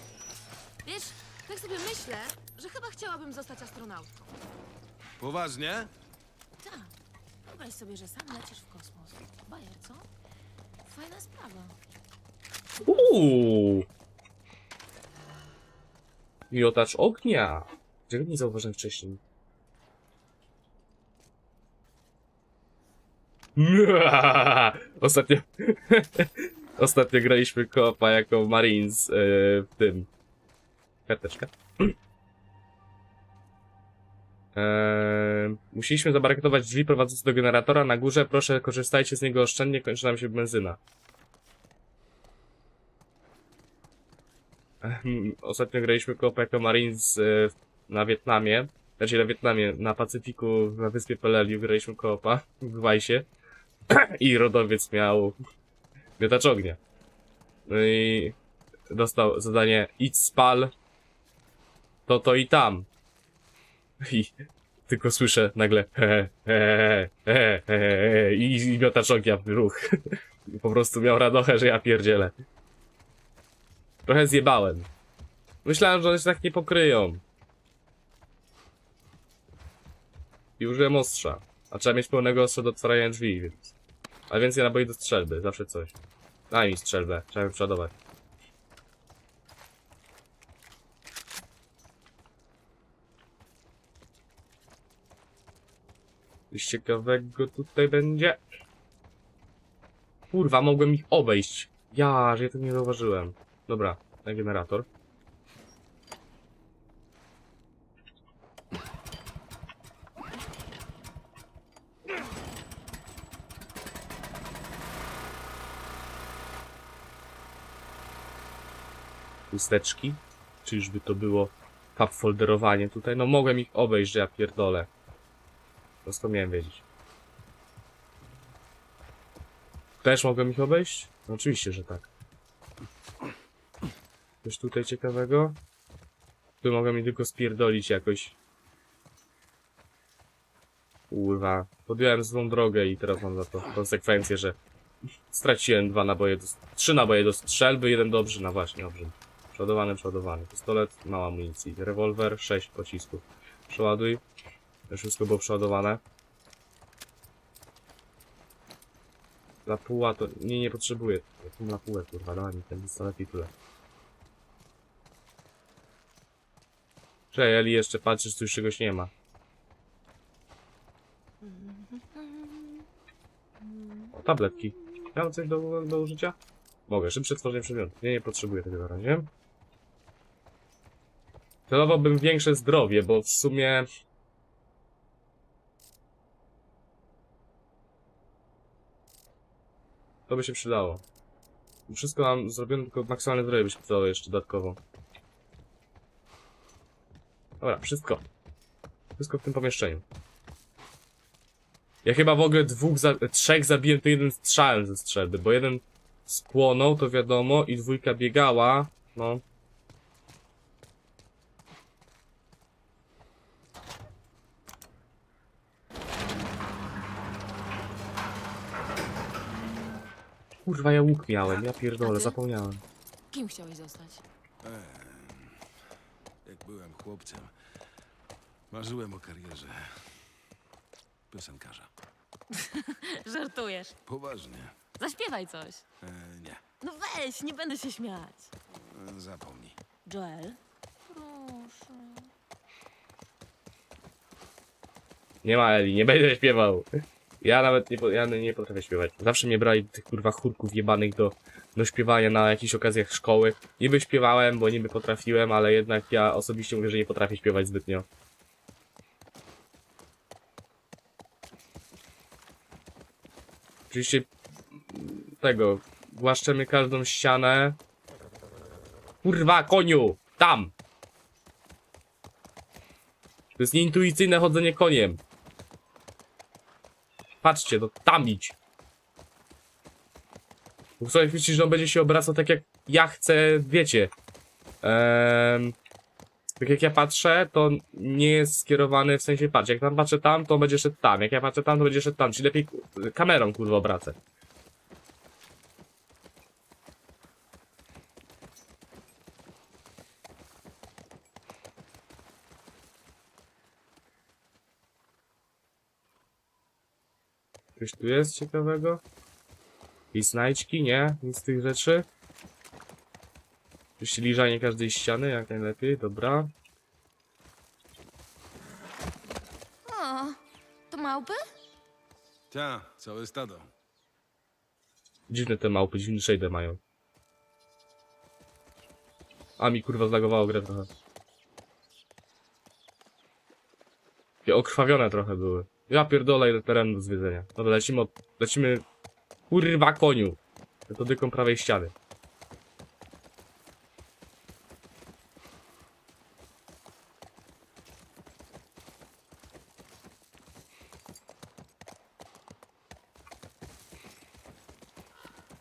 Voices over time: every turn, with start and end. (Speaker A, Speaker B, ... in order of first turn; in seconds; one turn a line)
Speaker A: 0.8-4.2
Speaker B: 5.2-5.9
Speaker A: 6.6-6.9
Speaker A: 7.5-10.1
Speaker A: 10.8-11.8
Speaker C: 12.8-13.8
Speaker C: 16.5-19.2
Speaker C: 23.6-30.1
Speaker C: 31.1-31.9
Speaker C: 34.5-40.8
Speaker C: 44.8-53.3
Speaker C: 53.9-55.4
Speaker C: 56.2-56.8
Speaker C: 57.7-58.4
Speaker C: 58.9-60.7
Speaker C: 62.1-62.9
Speaker C: 64.0-64.3
Speaker C: 64.9-72.3
Speaker C: 74.0-74.9
Speaker C: 75.6-77.2
Speaker C: 80.6-83.7
Speaker C: 84.3-86.0
Speaker C: 86.5-87.9
Speaker C: 96.5-98.4
Speaker C: 100.3-104.9
Speaker C: 119.5-124.9
Speaker C: 126.0-126.8
Speaker C: 130.0-132.1
Speaker C: 134.4-135.6
Speaker C: 136.6-138.4
Speaker C: 141.1-144.6
Speaker C: 145.3-154.2
Speaker C: 154.9-156.0
Speaker C: 159.7-163.5
Speaker C: 167.3-169.1
Speaker A: 171.4-172.8
Speaker A: 173.6-174.1
Speaker C: 174.1-179.3
Speaker C: 181.7-183.8
Speaker C: 190.3-191.0
Speaker C: 191.9-194.8
Speaker C: 197.6-198.2
Speaker C: 199.2-200.0
Speaker C: 202.0-209.4
Speaker C: 220.7-222.8
Speaker A: 221.5-222.4
Speaker A: 223.3-224.2
Speaker B: 224.6-225.7
Speaker B: 226.4-227.5
Speaker B: 228.7-230.2
Speaker B: 231.3-231.9
Speaker A: 232.5-233.9
Speaker B: 234.1-234.8
Speaker A: 235.0-235.8
Speaker B: 236.0-236.6
Speaker A: 236.8-238.5
Speaker B: 238.7-239.8
Speaker A: 240.1-242.3
Speaker C: 245.4-246.9
Speaker C: 247.4-258.1
Speaker C: 263.9-264.3
Speaker C: 264.9-267.8
Speaker C: 269.2-270.7
Speaker C: 273.6-275.2
Speaker C: 277.4-278.6
Speaker C: 281.0-284.1
Speaker C: 284.8-285.8
Speaker C: 286.6-294.2
Speaker C: 307.8-309.0
Speaker C: 310.1-312.1
Speaker C: 314.0-316.5
Speaker A: 319.9-321.4
Speaker B: 322.5-323.7
Speaker C: 325.3-326.8
Speaker C: 329.6-330.9
Speaker C: 334.4-338.8
Speaker C: 339.5-341.9